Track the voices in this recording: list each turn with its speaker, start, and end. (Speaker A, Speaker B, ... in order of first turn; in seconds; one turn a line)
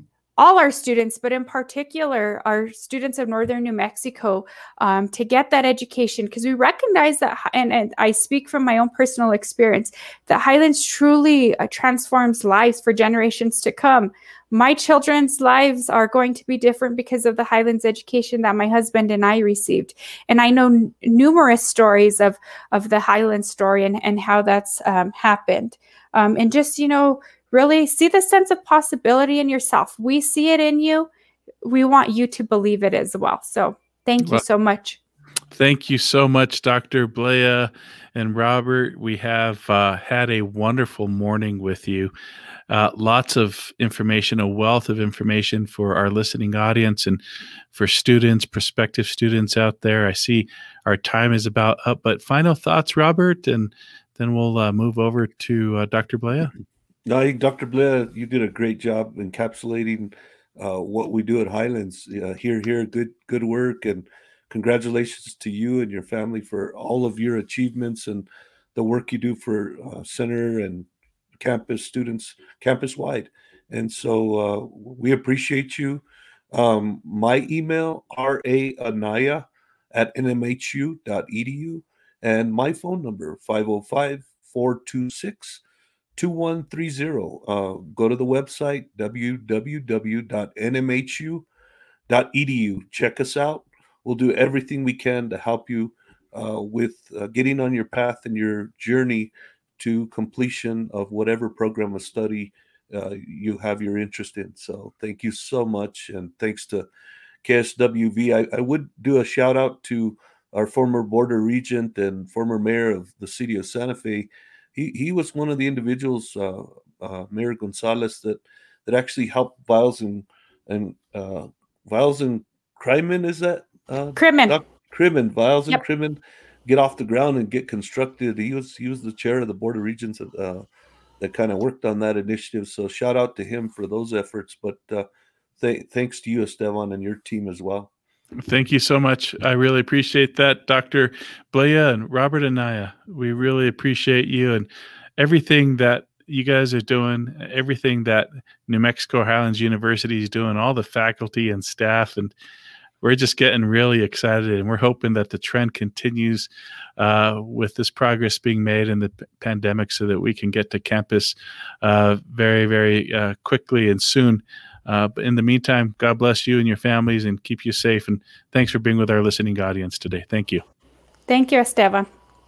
Speaker A: 0.4-31.1
Speaker A: 31.6-35.0
Speaker B: 35.5-42.1
Speaker B: 42.7-47.2
Speaker B: 47.7-56.5
Speaker C: 57.0-70.9
Speaker C: 71.4-85.6
Speaker C: 86.2-91.5
Speaker C: 92.1-106.9
Speaker C: 107.4-130.7
Speaker A: 124.2-124.5
Speaker C: 131.2-135.1
Speaker C: 135.6-137.9
Speaker B: 138.4-144.7
Speaker B: 145.2-152.3
Speaker B: 153.0-170.6
Speaker A: 171.3-172.1